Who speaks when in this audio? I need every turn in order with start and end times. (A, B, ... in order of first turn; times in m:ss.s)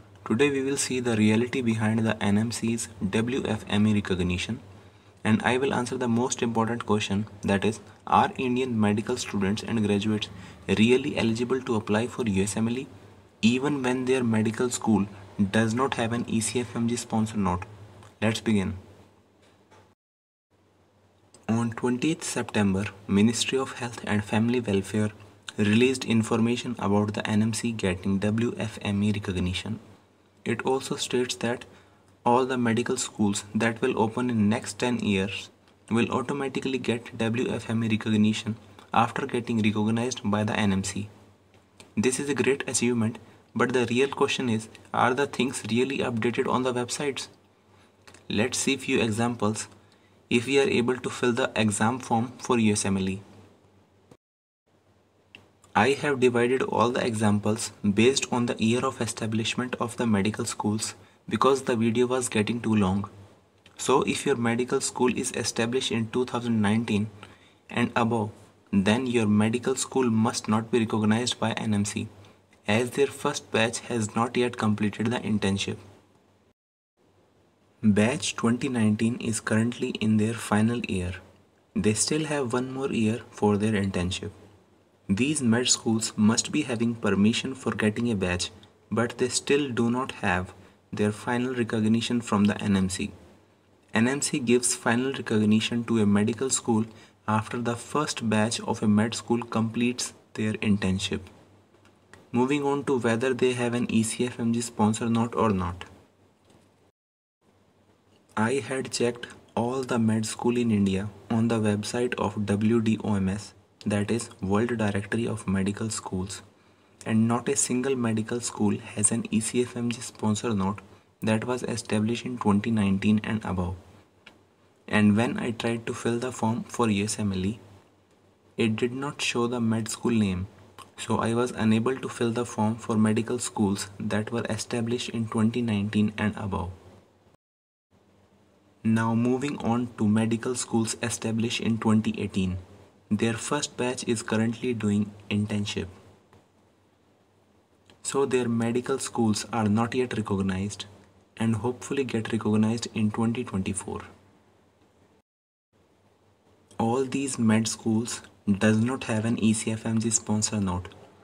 0:00.2-0:04.6 A
0:05.2-0:12.9 A
0:13.4-0:17.7 A
0:18.2-0:18.8 A
0:21.5-0:29.8 A
0:30.4-0:31.7 A
0:32.2-0:41.1 A
0:42.0-0:47.3 A
0:48.3-0:49.7 A
0:50.3-0:53.2 A
0:55.8-1:03.1 A
1:03.8-1:07.1 A
1:07.7-1:12.1 A
1:12.7-1:15.8 A
1:17.8-1:21.2 A
1:21.8-1:24.3 A
1:25.1-1:33.1 A
1:33.9-1:41.3 A
1:42.3-1:45.9 A
1:48.4-1:56.4 A
1:57.1-2:03.8 A
2:04.9-2:07.6 A
2:08.6-2:16.8 A
2:18.8-2:25.9 A
2:28.0-2:34.1 A
2:36.8-2:40.9 A